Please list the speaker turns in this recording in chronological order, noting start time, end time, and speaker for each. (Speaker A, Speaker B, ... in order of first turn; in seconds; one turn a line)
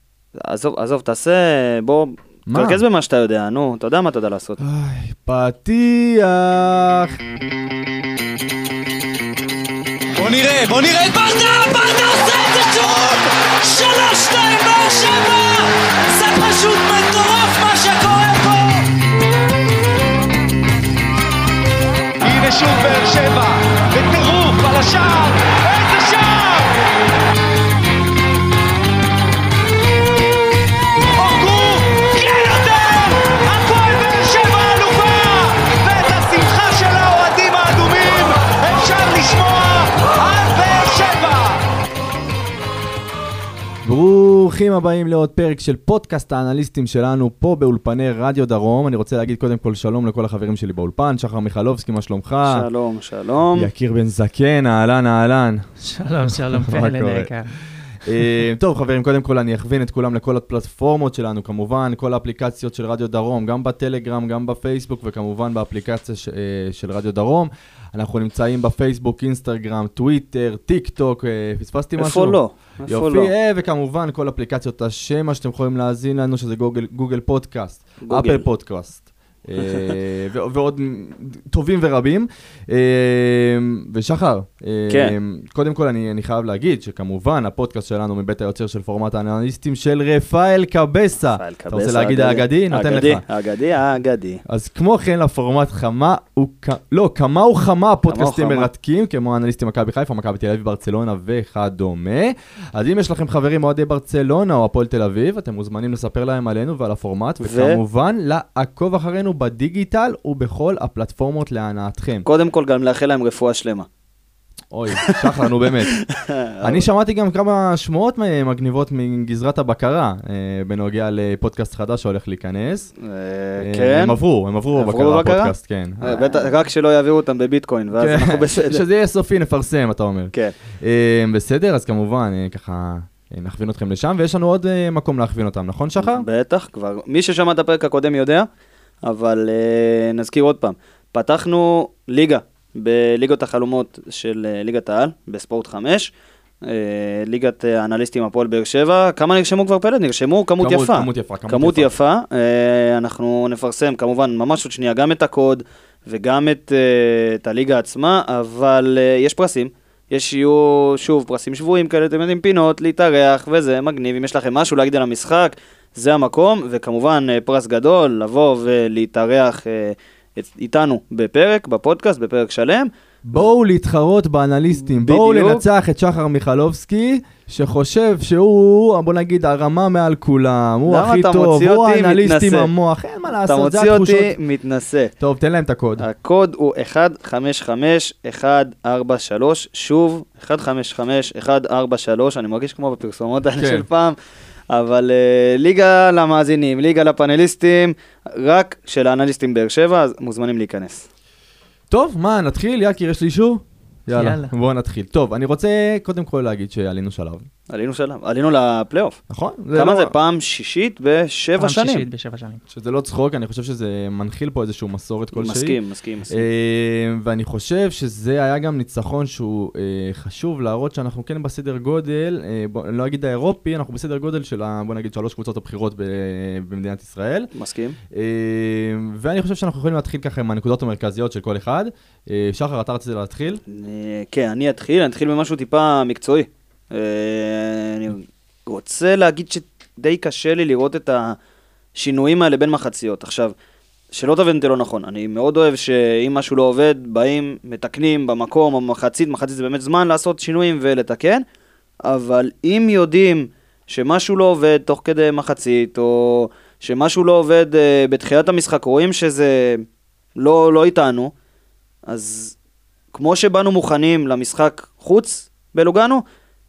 Speaker A: 0.4-4.6
Speaker B: 2.5-2.8
Speaker B: 4.6-7.2
Speaker C: 10.2-18.9
Speaker C: 22.2-26.8
Speaker C: 31.1-41.6
Speaker B: 43.8-52.6
Speaker A: 52.4-53.7
Speaker B: 53.5-55.7
Speaker D: 55.8-57.5
Speaker B: 56.2-57.3
Speaker B: 58.0-93.2
Speaker A: 72.0-73.3
Speaker A: 78.0-78.4
Speaker A: 84.9-85.1
Speaker A: 91.3-94.4
Speaker B: 94.4-112.3
Speaker A: 98.1-98.7
Speaker A: 107.4-107.8
Speaker A: 112.2-113.9
Speaker B: 114.7-116.0
Speaker A: 116.0-116.8
Speaker B: 116.6-122.9
Speaker A: 123.0-124.2
Speaker B: 123.6-126.4
Speaker A: 124.7-128.8
Speaker B: 128.0-136.2
Speaker A: 136.0-138.5
Speaker A: 139.0-146.1
Speaker A: 146.6-172.9
Speaker B: 150.6-151.9
Speaker B: 173.2-184.3
Speaker A: 174.8-175.6
Speaker A: 180.9-182.7
Speaker A: 183.4-185.1
Speaker B: 185.2-186.0
Speaker A: 186.0-194.2
Speaker B: 193.6-193.8
Speaker A: 194.7-201.1
Speaker B: 201.9-207.5
Speaker D: 204.1-204.5
Speaker A: 207.7-209.2
Speaker B: 209.3-210.1
Speaker A: 209.7-212.0
Speaker D: 211.6-212.6
Speaker B: 212.7-215.8
Speaker A: 215.3-216.4
Speaker B: 216.3-227.5
Speaker A: 227.5-227.9
Speaker B: 228.1-233.6
Speaker A: 233.7-241.4
Speaker A: 241.9-243.5
Speaker A: 244.1-251.4
Speaker A: 252.1-259.8
Speaker A: 260.4-261.3
Speaker A: 262.1-262.5
Speaker A: 263.1-266.2